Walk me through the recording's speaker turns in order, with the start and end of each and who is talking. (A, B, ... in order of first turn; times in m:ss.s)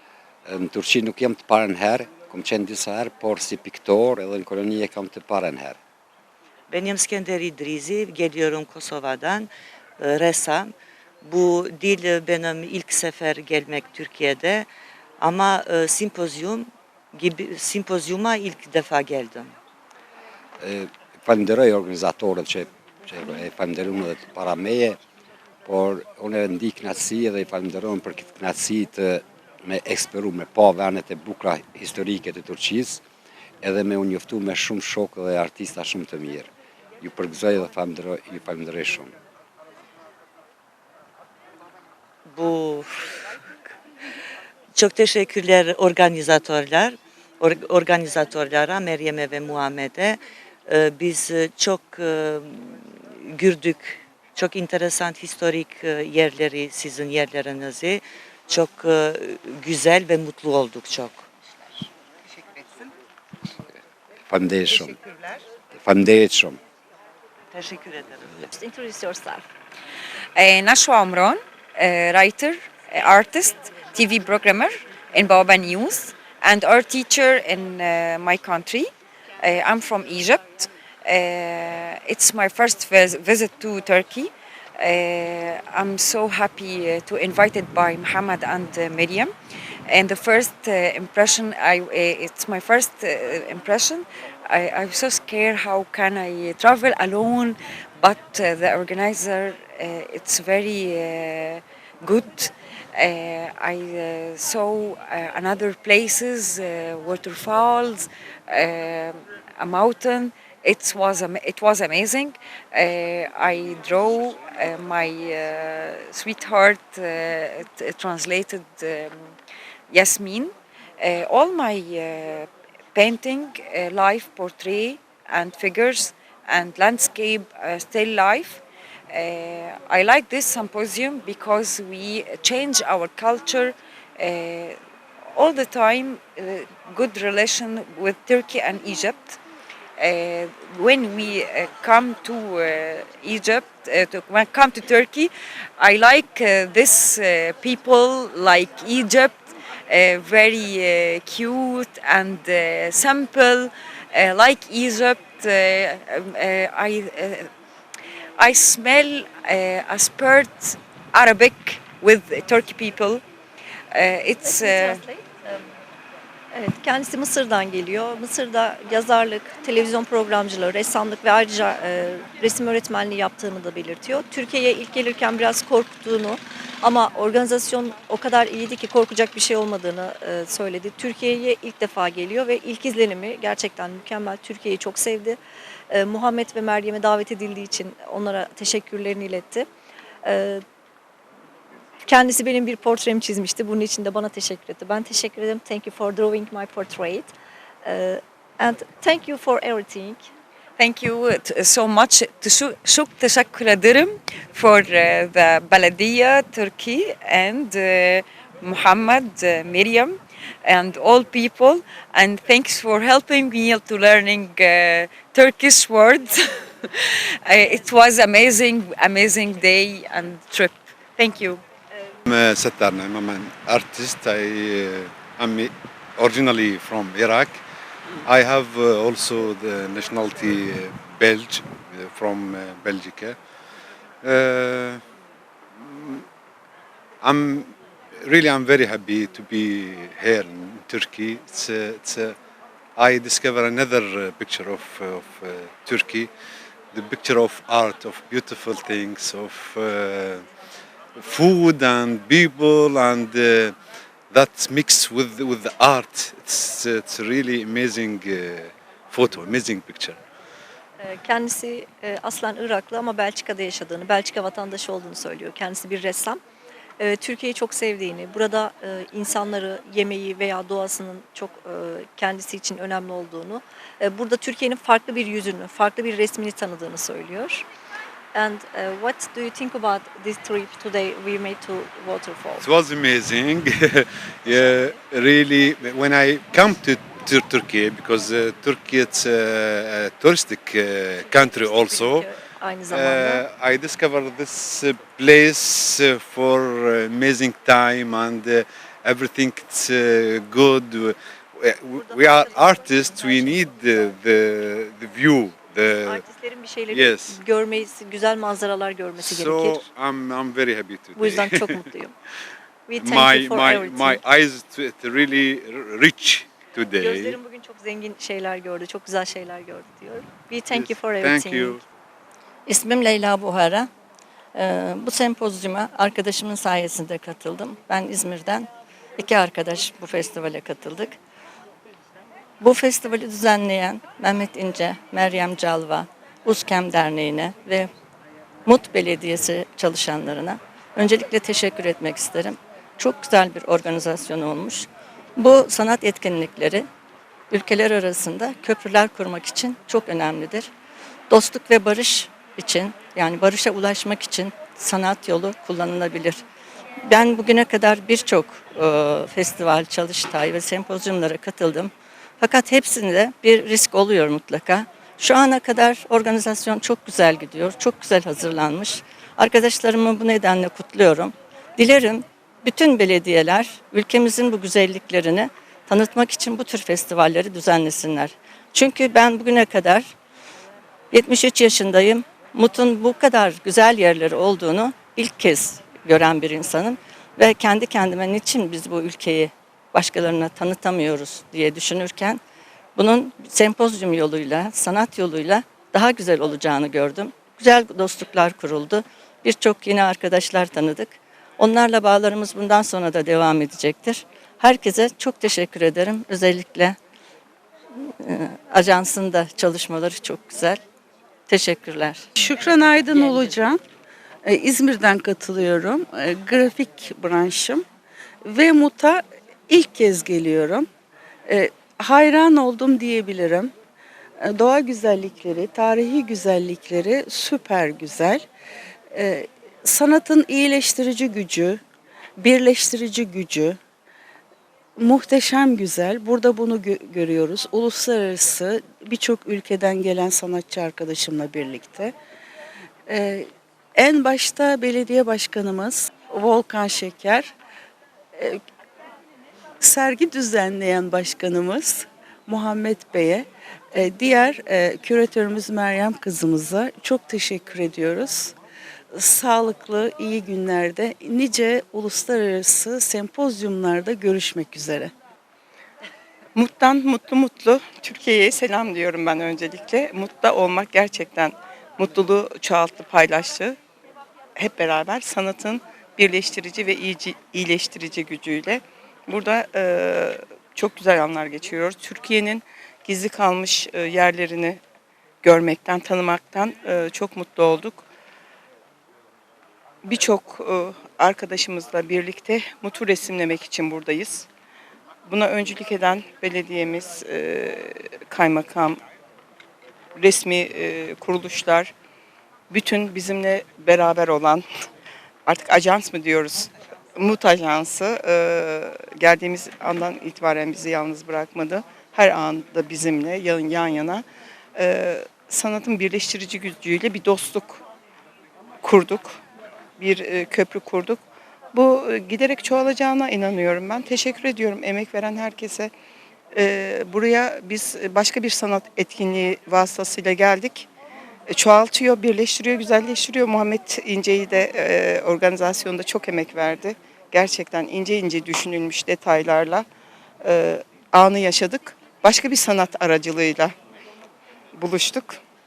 0:00.4-0:05.8 A
0:06.7-0:14.7 B
0:15.2-0:19.5 B
0:20.6-0:25.0 A
0:25.6-0:33.0 A
0:33.6-0:36.5 A
0:37.0-0:39.1 A
0:42.3-0:43.4 B
0:44.7-1:01.3 B
1:04.3-1:05.0 A
1:05.7-1:06.6 A
1:07.5-1:08.3 B
1:08.5-1:09.4 C
1:10.4-1:29.3 D
1:29.9-1:59.1 D
1:59.9-2:14.8 D
2:15.3-2:19.4 D
2:20.0-2:37.5 D
2:38.4-2:43.2 D
2:43.9-2:45.0 D
2:44.4-2:45.6 C
2:46.5-3:05.4 C
3:05.9-3:09.7 C
3:10.2-3:10.6 C
3:12.0-3:17.3 C
3:17.8-3:20.3 C
3:20.8-3:41.6 D
3:42.3-3:47.6 E
3:48.2-3:53.4 E
3:54.2-3:55.0 E
3:55.8-3:56.2 E
3:57.2-4:02.4 E
4:03.0-4:06.3 E
4:06.9-4:10.4 E
4:11.2-4:13.7 E
4:14.3-4:20.2 E
4:21.0-4:26.4 C
4:27.0-4:37.6 C
4:38.3-4:42.6 C
4:42.6-4:52.3 E
4:51.2-4:53.4 C
4:52.9-5:06.2 E
5:01.9-5:04.0 C
5:06.0-5:09.8 C
5:06.9-5:07.4 E
5:09.2-5:11.9 E
5:11.2-5:12.1 C
5:12.9-5:14.2 C
5:13.0-5:17.4 E
5:17.0-5:21.8 C
5:20.7-5:21.8 E
5:22.7-5:23.9 F
5:24.5-5:31.2 F
5:32.6-5:37.9 F
5:38.6-5:46.9 F
5:47.5-5:50.7 F
5:51.3-5:56.4 F
5:57.0-6:20.1 F
6:21.1-6:32.4 F
6:33.0-6:47.0 F
6:48.2-6:50.8 F
6:51.5-6:52.3 F
6:52.4-6:53.8 G
6:54.4-6:57.9 G
6:58.4-7:00.9 G
7:01.4-7:03.7 G
7:04.4-7:08.4 G
7:09.1-7:11.8 G
7:12.4-7:13.8 G
7:15.0-7:22.1 G
7:23.1-7:27.5 G
7:28.3-7:28.6 G
7:29.8-7:38.6 G
7:39.1-7:45.1 G
7:46.5-7:53.8 H
7:54.6-8:04.8 H
8:05.4-8:08.0 H
8:10.0-8:14.5 H
8:15.2-8:19.0 H
8:20.2-8:21.9 H
8:22.7-8:24.6 H
8:25.4-8:37.8 H
8:38.8-8:39.4 H
8:40.0-8:41.2 H
8:41.7-8:45.9 H
8:46.5-8:50.9 H
8:51.5-8:59.8 H
9:00.4-9:03.7 H
9:04.7-9:05.4 H